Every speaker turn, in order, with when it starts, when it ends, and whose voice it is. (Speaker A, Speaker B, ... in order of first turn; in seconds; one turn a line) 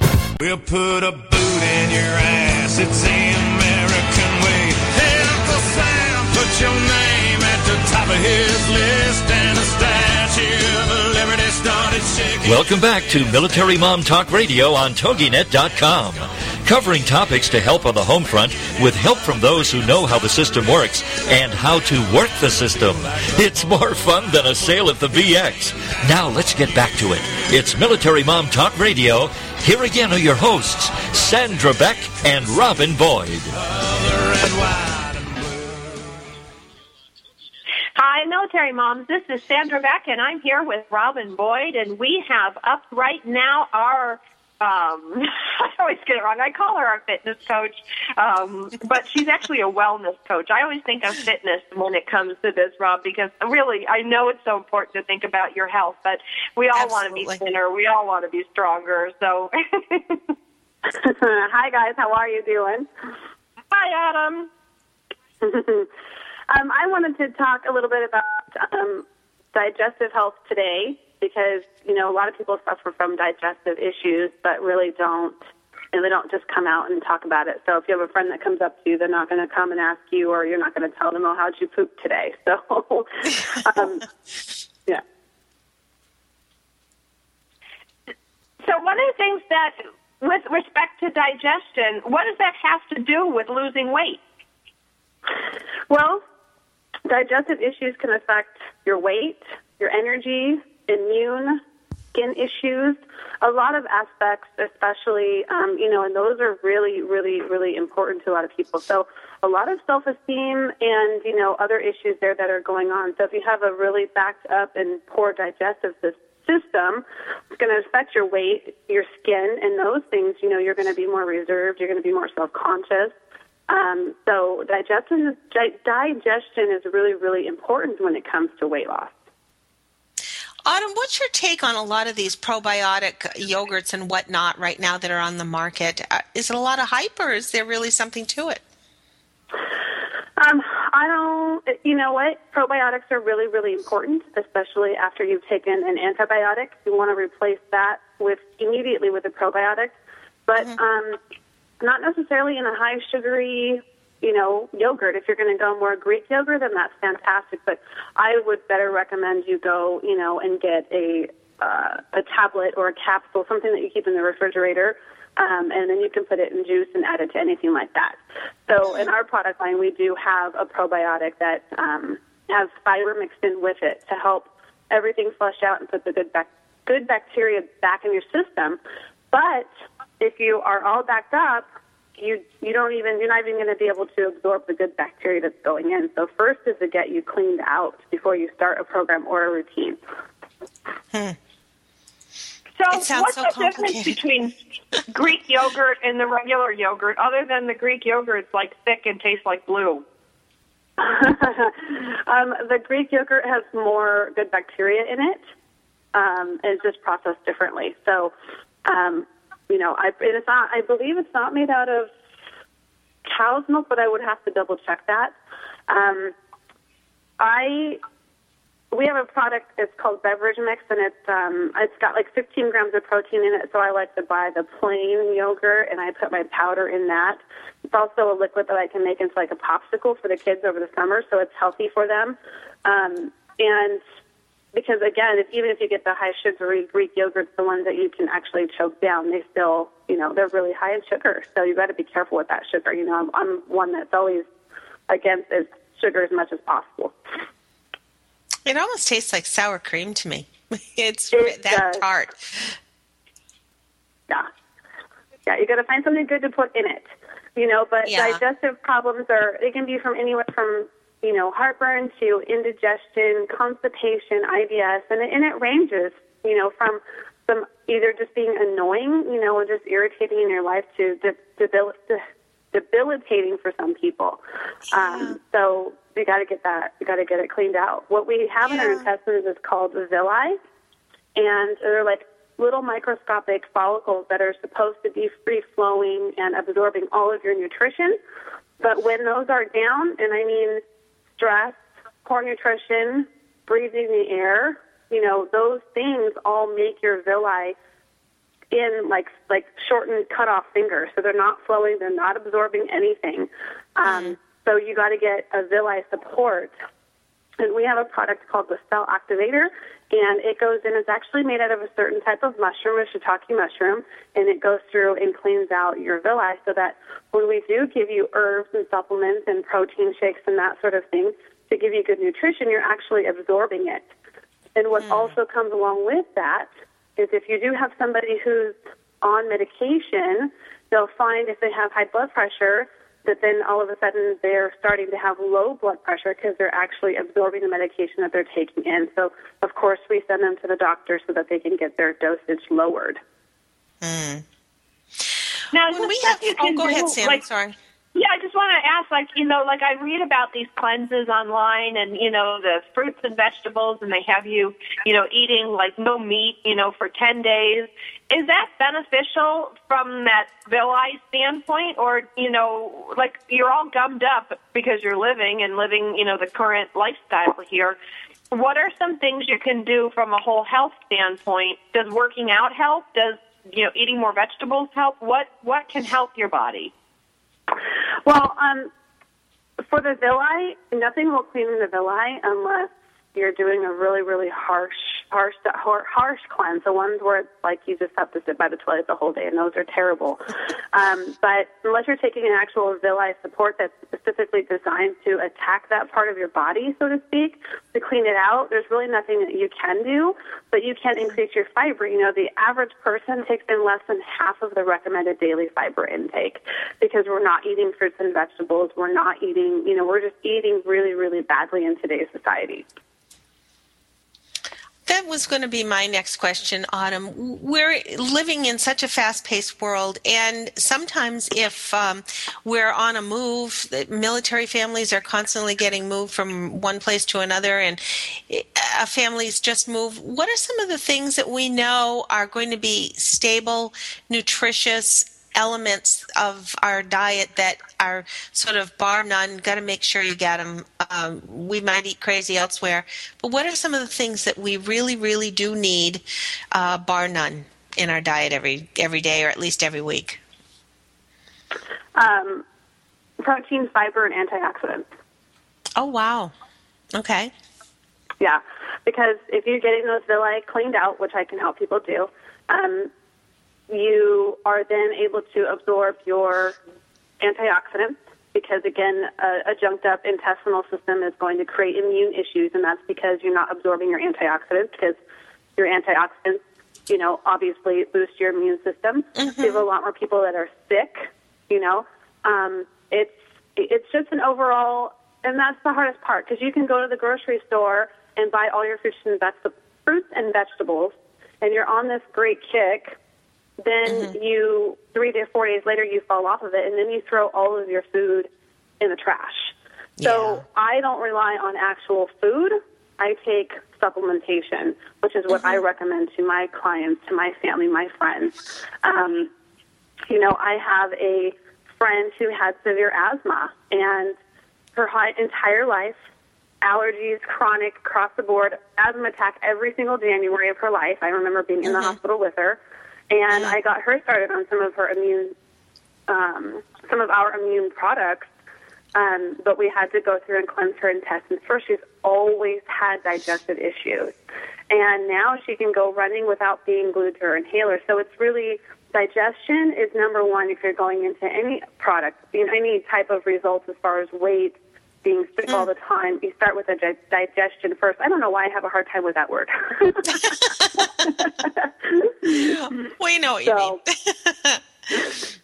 Speaker A: 0.4-12.7
Speaker B: 12.4-33.5
Speaker A: 33.7-36.0
Speaker C: 38.0-60.3
Speaker D: 56.7-57.4
Speaker E: 60.9-62.9
Speaker C: 63.7-64.5
Speaker E: 65.4-65.9
Speaker E: 66.5-75.4
Speaker E: 75.9-84.1
Speaker C: 88.6-94.2
Speaker E: 95.9-96.2
Speaker E: 97.0-101.6
Speaker E: 102.1-123.1
Speaker E: 123.7-129.2
Speaker D: 130.7-138.6
Speaker E: 140.4-149.9
Speaker E: 150.5-151.2
Speaker E: 151.8-178.8
Speaker E: 179.3-190.0
Speaker D: 191.1-191.4
Speaker C: 192.8-194.5
Speaker D: 192.9-194.2
Speaker C: 195.1-200.0
Speaker E: 201.0-205.4
Speaker E: 206.1-208.3
Speaker E: 208.8-212.1
Speaker E: 213.2-215.3
Speaker E: 215.9-216.3
Speaker E: 217.4-218.0
Speaker E: 218.9-234.0
Speaker E: 234.7-244.5
Speaker E: 245.1-247.1
Speaker D: 248.7-252.8
Speaker E: 251.3-252.0
Speaker E: 255.4-274.4
Speaker D: 258.0-258.4
Speaker E: 274.9-280.6
Speaker D: 274.9-275.4
Speaker D: 278.6-279.1
Speaker E: 281.3-288.2
Speaker E: 288.8-290.8
Speaker E: 291.4-297.8
Speaker E: 298.7-306.8
Speaker D: 304.1-304.3
Speaker E: 307.6-324.1
Speaker E: 324.8-343.2
Speaker D: 325.0-325.4
Speaker D: 344.0-344.4
Speaker C: 345.7-347.4
Speaker D: 345.9-347.8
Speaker C: 348.1-368.0
Speaker C: 368.5-376.9
Speaker E: 378.2-378.9
Speaker E: 379.9-412.9
Speaker D: 415.1-450.4
Speaker E: 452.1-452.6
Speaker E: 453.4-455.1
Speaker D: 455.9-456.5
Speaker D: 457.1-457.5
Speaker E: 458.4-463.1
Speaker E: 463.9-466.8
Speaker E: 467.4-475.2
Speaker E: 475.8-493.2
Speaker D: 479.4-479.9
Speaker E: 493.8-509.5
Speaker D: 494.1-494.3
Speaker D: 500.2-500.6
Speaker E: 510.3-514.4
Speaker E: 515.0-516.2
Speaker E: 516.8-525.5
Speaker D: 521.9-522.1
Speaker D: 523.5-523.8
Speaker E: 526.3-528.5
Speaker E: 529.1-534.3
Speaker E: 534.9-552.7
Speaker D: 552.4-555.3
Speaker E: 553.6-554.0